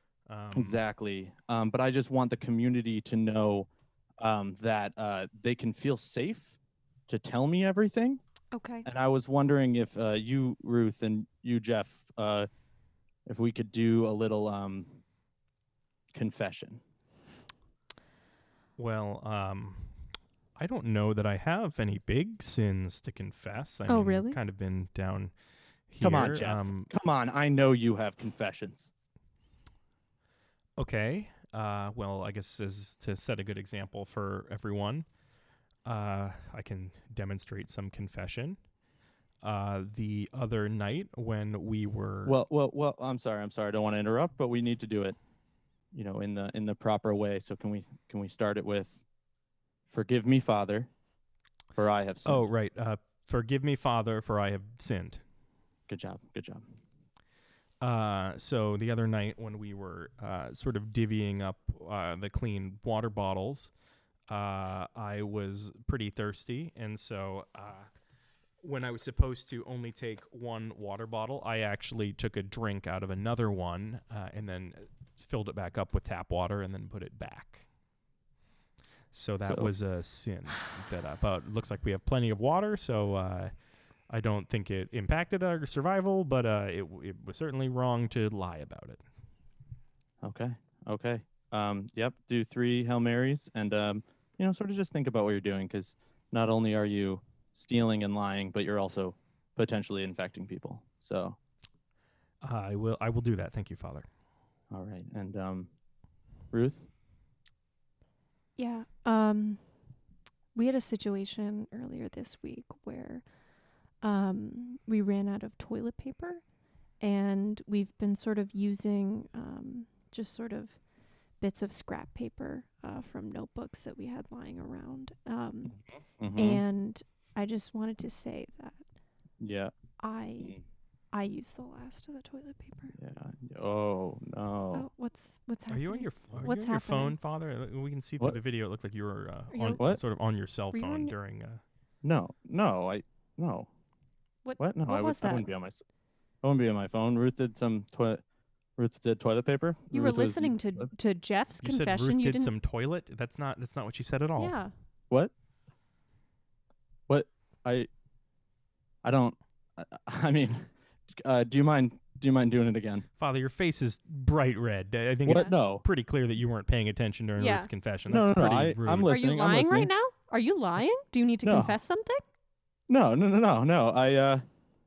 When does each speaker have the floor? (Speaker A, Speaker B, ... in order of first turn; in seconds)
Speaker A: 0.3-0.8, 18.8-20.0, 20.6-25.3, 25.9-26.9, 30.8-35.1, 35.8-38.6, 39.4-42.4, 52.2-55.2, 57.8-63.7, 64.3-67.9, 68.6-77.7, 79.1-89.0, 102.4-104.1, 135.7-141.6, 151.6-154.6, 163.2-169.1
Speaker B: 0.5-3.7, 4.2-8.2, 8.8-12.5, 13.2-15.0, 16.1-16.8, 26.0-28.9, 42.3-45.2, 45.9-49.0, 49.9-50.9, 51.7-52.5, 55.9-56.7, 79.4-79.7, 90.2-101.4, 104.7-105.7, 106.5-106.9, 126.2-126.6, 129.4-129.7, 132.9-134.9, 142.0-143.7, 144.6-145.8, 146.4-148.2, 148.8-150.9, 157.1-157.9, 159.0-163.1, 165.2-165.8, 168.1-169.9, 171.4-171.8, 172.9-174.4
Speaker C: 8.5-8.9, 23.9-24.4, 108.6-109.6, 110.5-113.2, 114.0-116.4, 117.0-120.8, 121.4-125.8, 126.3-128.8, 130.0-130.6, 131.1-132.9, 134.7-137.2, 139.5-139.8, 140.7-141.1, 144.4-145.5, 149.9-152.5, 154.4-154.7, 165.3-165.5, 167.4-167.7, 169.1-172.2